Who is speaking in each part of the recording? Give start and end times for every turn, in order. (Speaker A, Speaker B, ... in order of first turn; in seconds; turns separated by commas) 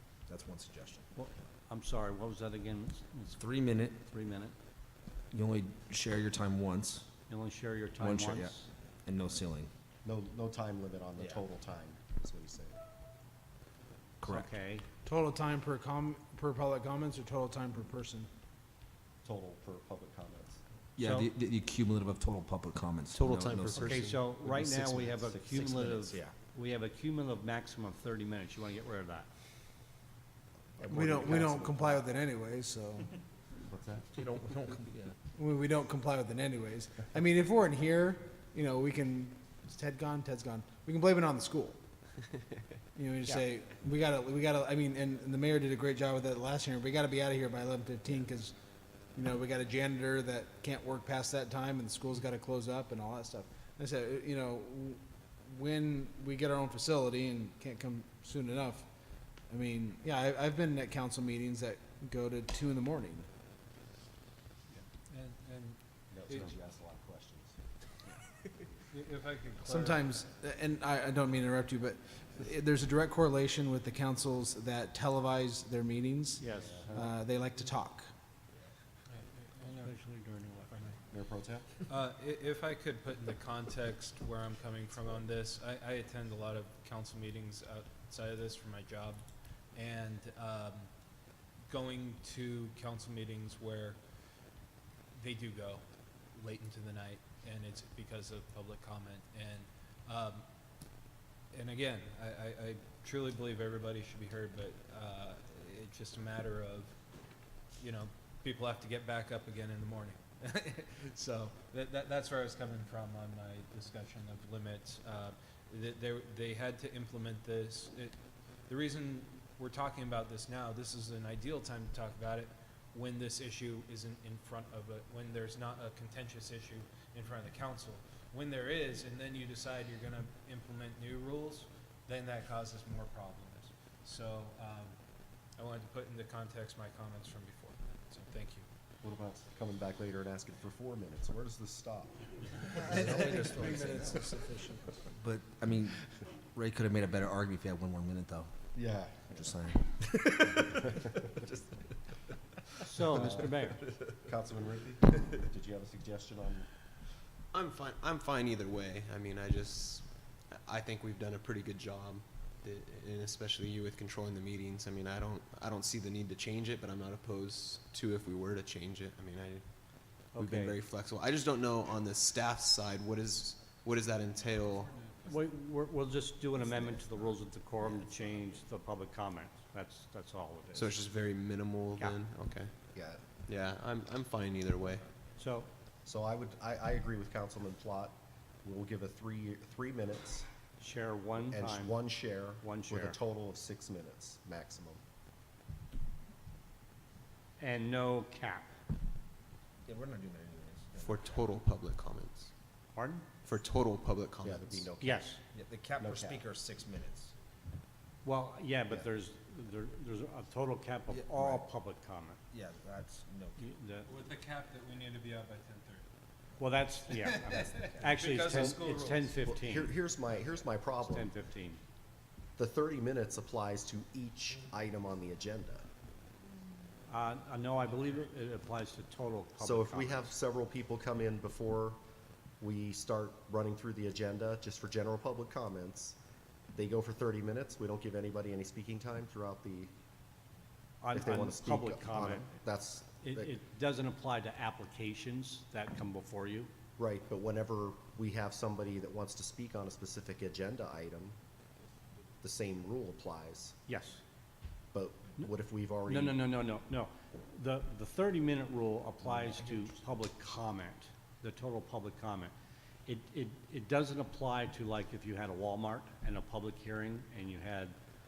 Speaker A: 0.3-1.1, Speaker B: 1.1-3.4, Speaker A: 3.4-4.0, Speaker B: 4.0-4.5, Speaker A: 5.3-7.1, Speaker B: 7.3-8.7, Speaker A: 8.0-9.7, Speaker C: 10.0-12.8, Speaker A: 14.2-14.5, Speaker B: 14.2-14.9, Speaker D: 15.1-18.3, Speaker C: 19.2-20.6, Speaker A: 21.0-24.1, Speaker B: 21.0-21.3, Speaker C: 23.7-26.2, Speaker B: 23.7-29.3, Speaker C: 30.8-32.0, Speaker D: 30.9-33.1, Speaker C: 33.7-34.1, Speaker A: 34.2-35.1, Speaker D: 35.4-41.8, Speaker D: 43.0-48.5, Speaker D: 49.1-58.9, Speaker D: 59.5-63.3, Speaker E: 64.7-66.5, Speaker C: 66.1-67.6, Speaker E: 68.9-70.2, Speaker D: 69.7-78.1, Speaker B: 76.4-77.2, Speaker E: 79.1-79.9, Speaker B: 79.7-80.9, Speaker E: 80.7-81.0, Speaker C: 81.1-81.7, Speaker E: 81.9-89.2, Speaker E: 89.7-90.9, Speaker E: 91.7-94.0, Speaker E: 95.1-100.5, Speaker E: 101.5-107.0, Speaker E: 107.8-118.2, Speaker E: 118.7-135.0, Speaker E: 135.6-138.7, Speaker C: 139.0-144.2, Speaker A: 142.9-144.2, Speaker D: 142.9-144.8, Speaker A: 145.1-146.0, Speaker A: 146.6-148.5, Speaker C: 148.7-149.5, Speaker A: 149.3-149.9, Speaker C: 150.6-151.7, Speaker B: 152.8-153.8, Speaker C: 153.0-156.7, Speaker F: 157.5-174.9, Speaker B: 170.3-170.8, Speaker B: 175.2-181.1, Speaker C: 176.6-178.6, Speaker F: 180.7-182.8, Speaker B: 182.0-182.2, Speaker C: 182.9-183.4, Speaker F: 183.5-185.0, Speaker B: 185.4-185.7, Speaker C: 186.1-190.5, Speaker B: 190.8-193.2, Speaker C: 191.5-195.0, Speaker B: 197.6-198.7, Speaker A: 199.8-201.6, Speaker F: 201.0-202.5, Speaker B: 202.9-203.2, Speaker F: 203.4-204.7, Speaker C: 204.4-205.4, Speaker B: 205.0-205.4, Speaker A: 205.5-207.3, Speaker C: 206.0-206.4, Speaker B: 208.2-212.4, Speaker A: 211.1-211.7, Speaker A: 212.5-213.8, Speaker B: 213.6-214.1, Speaker E: 214.1-216.1, Speaker B: 216.6-219.9, Speaker E: 217.1-219.3, Speaker C: 219.5-221.3, Speaker B: 221.0-221.8, Speaker C: 222.6-225.9, Speaker B: 227.1-230.3, Speaker C: 229.6-232.0, Speaker C: 232.6-236.2, Speaker C: 236.7-239.9, Speaker B: 241.0-242.5, Speaker C: 241.1-243.5, Speaker B: 243.2-246.7, Speaker C: 247.0-251.4, Speaker C: 252.4-253.8, Speaker B: 253.9-254.2, Speaker C: 254.9-256.4, Speaker B: 256.1-262.5, Speaker B: 263.1-268.0